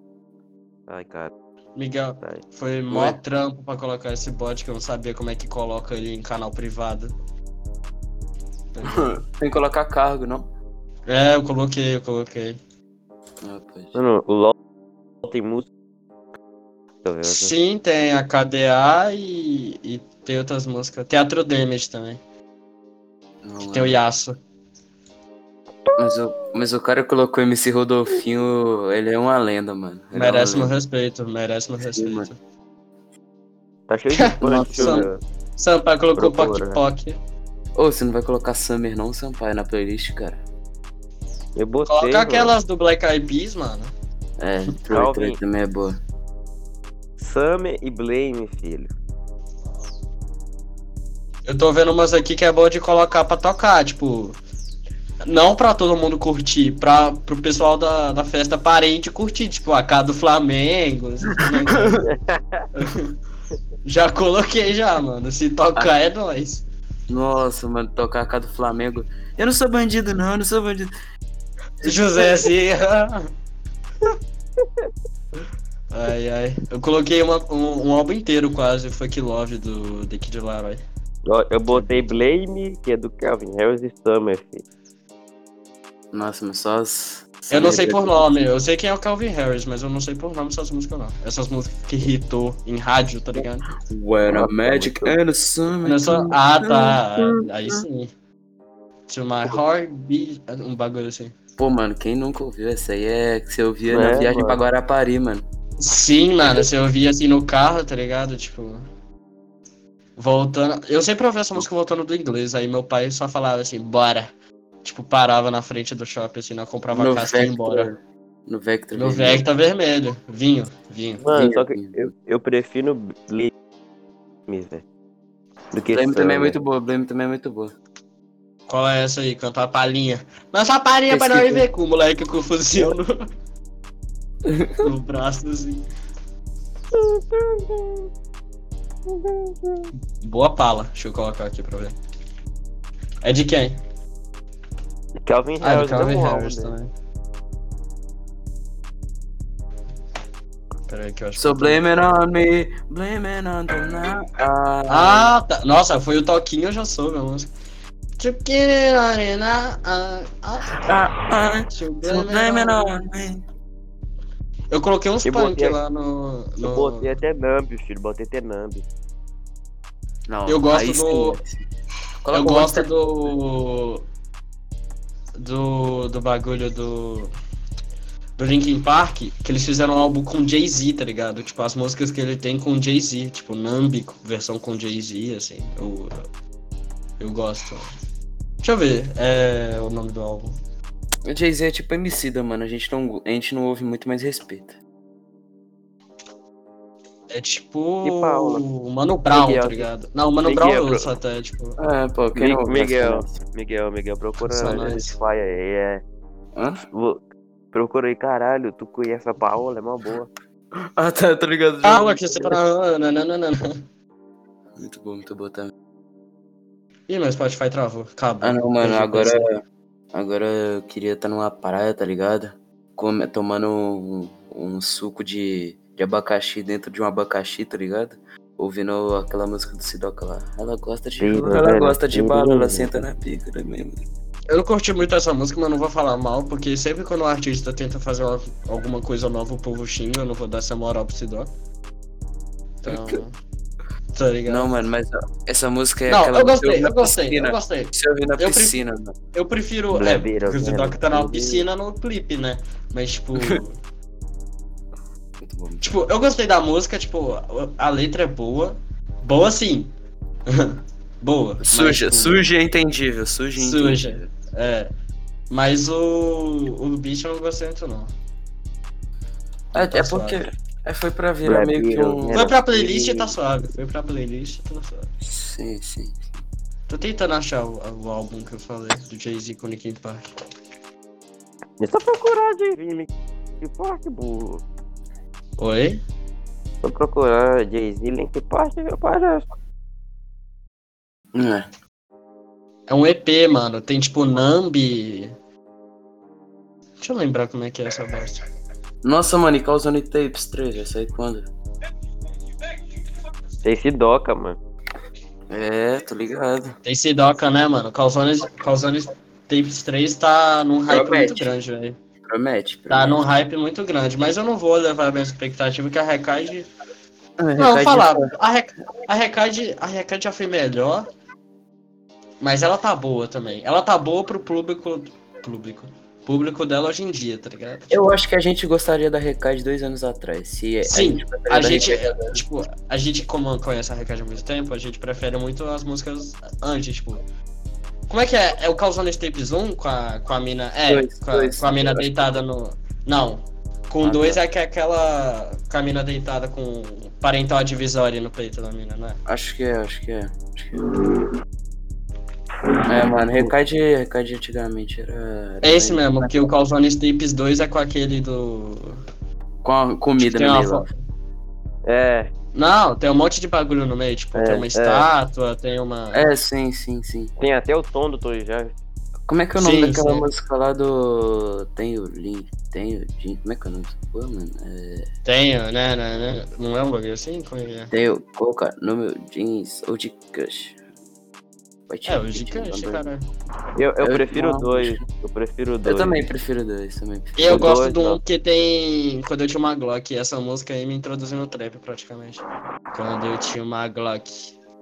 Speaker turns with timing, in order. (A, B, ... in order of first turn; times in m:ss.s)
0:00.9-0:01.3 A
0:01.8-0:07.1 B
0:02.2-0:03.2 A
0:08.7-0:09.2 B
0:08.9-0:10.5 C
0:11.1-0:12.6 B
0:13.4-0:14.0 C
0:13.9-0:14.5 A
0:15.2-0:15.7 A
0:17.0-0:17.5 A
0:17.2-0:22.2 B
0:23.4-0:24.0 C
0:23.7-0:24.4 B
0:26.0-0:30.7 C
0:30.1-0:32.4 B
0:31.8-0:32.3 C
0:33.9-0:35.2 A
0:34.1-0:37.2 B
0:34.4-0:35.1 C
0:36.2-0:36.8 A
0:37.8-0:40.4 C
0:41.6-0:42.5 A
0:41.9-0:43.9 B
0:44.4-0:46.0 C
0:44.9-0:45.4 A
0:47.2-0:48.9 A
0:51.4-0:54.4 B
0:55.2-1:02.0 B
1:01.4-1:02.1 C
1:02.1-1:02.6 A
1:02.7-1:03.1 B
1:03.8-1:06.6 B
1:07.1-1:10.9 C
1:11.8-1:12.3 C
1:11.8-1:13.3 B
1:15.9-1:20.8 B
1:21.2-1:24.6 A
1:21.7-1:22.2 B
1:26.1-1:28.3 C
1:27.5-1:33.7 B
1:33.8-1:37.8 C
1:34.3-1:35.1 A
1:35.8-1:38.1 B
1:39.1-1:41.3 B
1:41.6-1:45.4 C
1:43.9-1:44.6 A
1:45.8-1:48.8 B
1:50.2-1:54.3 B
1:54.8-1:57.9 B
1:56.9-1:59.4 C
1:59.0-2:01.2 B
2:01.2-2:03.5 A
2:01.3-2:02.1 C
2:04.5-2:04.8 A
2:05.7-2:06.5 A
2:05.9-2:07.7 C
2:08.7-2:13.2 B
2:11.1-2:11.6 C
2:14.4-2:14.8 C
2:14.8-2:15.8 B
2:16.9-2:18.1 A
2:19.1-2:19.9 A
2:20.2-2:22.0 B
2:23.2-2:23.8 B
2:25.2-2:26.7 A
2:25.6-2:26.9 B
2:30.9-2:31.8 B
2:31.4-2:35.3 C
2:34.9-2:37.5 B
2:38.2-2:40.8 B
2:40.8-2:43.4 C
2:41.7-2:42.9 B
2:44.7-2:47.1 B
2:45.2-2:45.8 A
2:46.6-2:48.8 A
2:50.3-2:51.6 C
2:50.5-2:51.4 B
2:52.2-2:52.9 C
2:52.3-2:54.0 B
2:55.4-2:57.3 B
2:58.4-3:06.2 B
3:07.2-3:07.8 B
3:08.6-3:10.5 B
3:11.2-3:14.8 C
3:17.3-3:21.8 B
3:18.0-3:18.6 A
3:19.3-3:19.9 A
3:20.4-3:21.1 A
3:21.8-3:23.4 C
3:22.4-3:26.0 A
3:24.4-3:25.2 B
3:26.6-3:26.8 C
3:26.9-3:27.2 A
3:27.7-3:30.3 A
3:30.8-3:32.6 C
3:31.8-3:33.8 B
3:34.8-3:35.7 C
3:37.1-3:39.4 B
3:38.4-3:39.6 C
3:40.1-3:54.1 C
3:51.2-3:53.0 A
3:54.5-4:01.5 B
4:02.8-4:03.3 B
4:02.8-4:03.2 C
4:04.1-4:04.7 B
4:04.5-4:09.1 C
4:06.1-4:08.8 B
4:09.3-4:13.8 B
4:09.9-4:11.6 A
4:15.4-4:16.0 C
4:15.8-4:19.9 B
4:20.5-4:22.4 B
4:21.6-4:24.3 C
4:23.6-4:24.9 B
4:25.5-4:28.1 B
4:29.7-4:30.4 B
4:29.7-4:33.3 C
4:31.4-4:32.5 A
4:32.3-4:35.1 B
4:35.2-4:36.4 C
4:36.9-4:40.2 B
4:41.8-4:44.6 A
4:45.6-4:46.0 B
4:46.8-4:49.4 A
4:51.3-4:51.6 C
4:52.9-4:55.3 B
4:57.0-4:58.4 B
4:59.0-5:01.5 C
5:03.6-5:04.6 A
5:05.5-5:06.7 C
5:06.8-5:12.0 B
5:10.9-5:11.5 C
5:12.2-5:13.2 C
5:12.9-5:16.7 B
5:17.4-5:18.3 C
5:17.6-5:21.1 B
5:22.4-5:28.0 B
5:27.9-5:32.4 C
5:30.8-5:37.2 B
5:38.1-5:49.2 B
5:40.9-5:42.4 C
5:44.0-5:44.4 C
5:49.3-5:50.8 C
5:52.8-5:56.5 C
5:55.6-5:58.9 B
5:59.6-6:00.9 C
6:00.2-6:01.0 B
6:01.8-6:02.3 A
6:02.5-6:06.3 B
6:04.3-6:05.1 A
6:06.1-6:07.3 C
6:07.4-6:08.7 A
6:09.3-6:15.1 C
6:09.6-6:10.3 B
6:15.2-6:17.9 B
6:17.9-6:20.8 C
6:21.9-6:23.1 C
6:22.0-6:23.2 B
6:23.8-6:26.3 A
6:24.0-6:25.0 C
6:25.8-6:27.7 C
6:27.4-6:34.5 B
6:27.5-6:28.2 A